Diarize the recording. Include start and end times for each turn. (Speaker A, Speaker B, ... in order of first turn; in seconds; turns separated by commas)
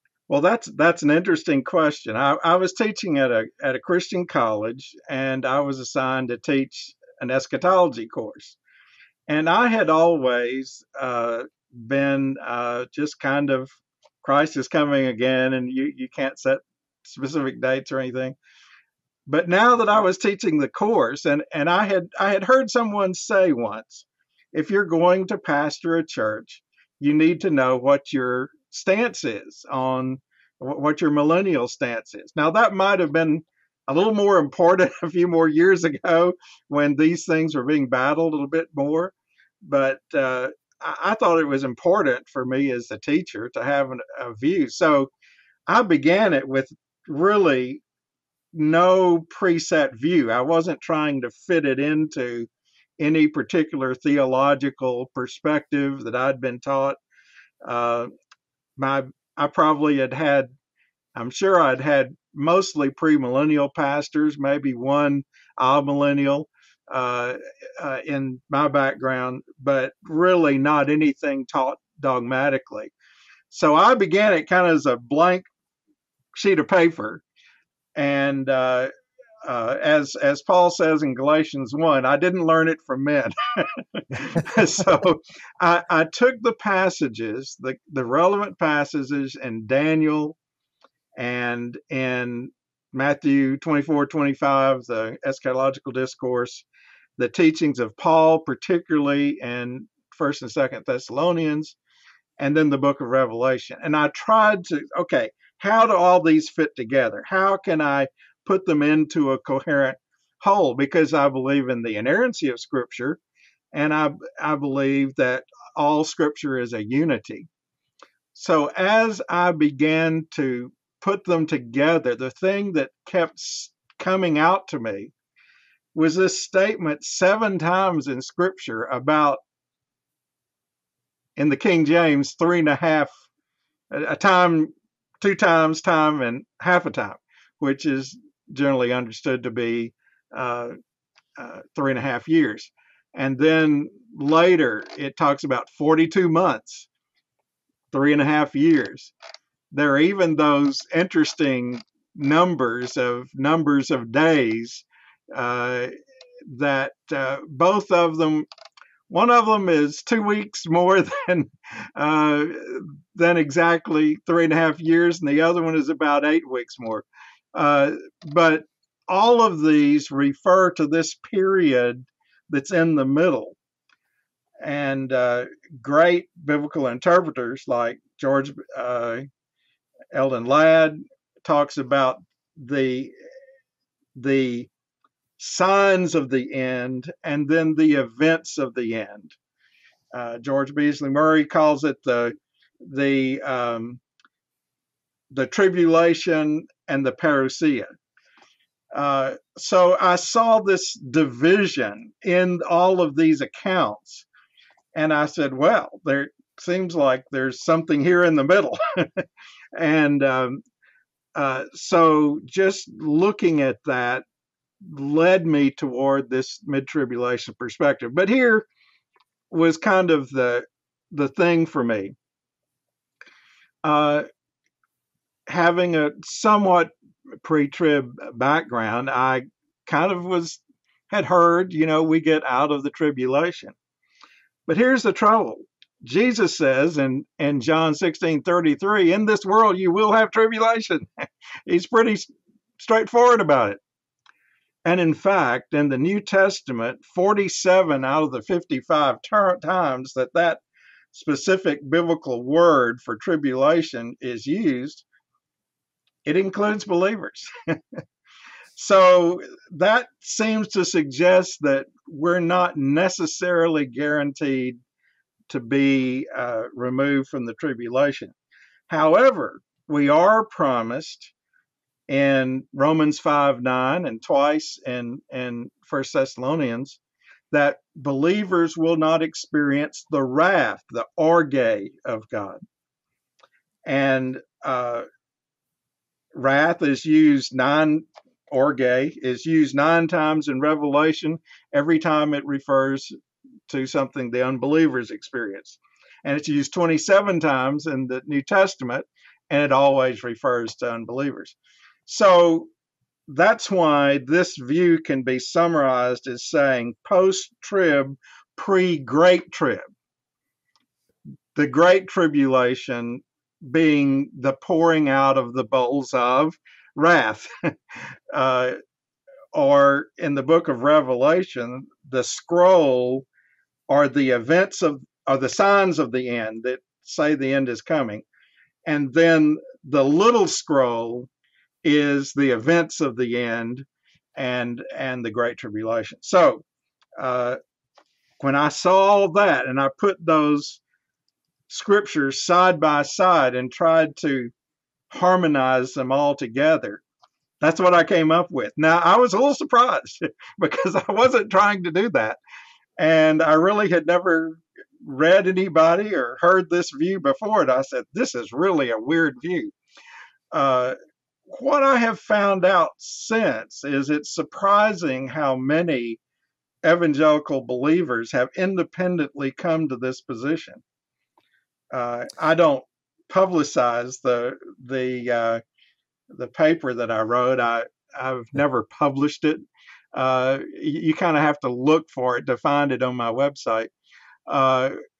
Speaker A: 0.3-8.6, Speaker A: 9.3-18.4, Speaker A: 19.3-39.1, Speaker A: 39.6-45.1, Speaker A: 45.7-47.8, Speaker A: 48.5-52.5, Speaker A: 53.0-57.0, Speaker A: 57.6-58.1, Speaker A: 58.8-60.5, Speaker A: 61.1-72.9, Speaker A: 73.5-75.5, Speaker A: 76.3-77.2, Speaker A: 77.9-78.9, Speaker A: 79.4-90.3, Speaker A: 91.1-96.7, Speaker A: 97.2-101.8, Speaker A: 102.4-113.2, Speaker A: 113.7-117.5, Speaker A: 118.3-125.1, Speaker A: 125.9-129.4, Speaker A: 131.3-133.1, Speaker A: 133.9-140.7, Speaker A: 141.4-146.9, Speaker A: 147.9-149.1, Speaker A: 149.7-155.9, Speaker A: 156.5-158.5, Speaker A: 159.1-173.6, Speaker A: 174.6-179.2, Speaker A: 180.1-183.1, Speaker A: 184.1-184.7, Speaker A: 185.4-189.3, Speaker A: 190.1-194.0, Speaker A: 195.3-197.9, Speaker A: 198.9-204.2, Speaker A: 204.9-209.2, Speaker A: 209.7-210.6, Speaker A: 211.3-214.2, Speaker A: 214.8-218.7, Speaker A: 219.5-222.1, Speaker A: 223.8-224.2, Speaker A: 225.5-233.7, Speaker A: 234.7-243.8, Speaker A: 244.8-250.6, Speaker A: 251.1-255.0, Speaker A: 256.2-257.8, Speaker A: 258.8-264.8, Speaker A: 265.5-268.3, Speaker A: 268.9-271.3, Speaker A: 272.1-277.0, Speaker A: 277.5-282.6, Speaker A: 283.8-285.1, Speaker A: 286.3-293.1, Speaker A: 293.7-301.5, Speaker A: 302.1-302.7, Speaker A: 303.3-309.9, Speaker A: 311.5-317.7, Speaker A: 318.3-318.8, Speaker A: 319.5-323.2, Speaker A: 323.9-328.2, Speaker A: 328.8-331.3, Speaker A: 331.8-336.6, Speaker A: 337.2-337.6, Speaker A: 338.4-340.8, Speaker A: 341.7-344.5, Speaker A: 345.1-347.0, Speaker A: 347.6-352.4, Speaker A: 353.0-359.7, Speaker A: 360.5-360.9, Speaker A: 361.5-366.2, Speaker A: 366.8-370.8, Speaker A: 371.9-375.6, Speaker A: 376.3-383.9, Speaker A: 384.5-384.9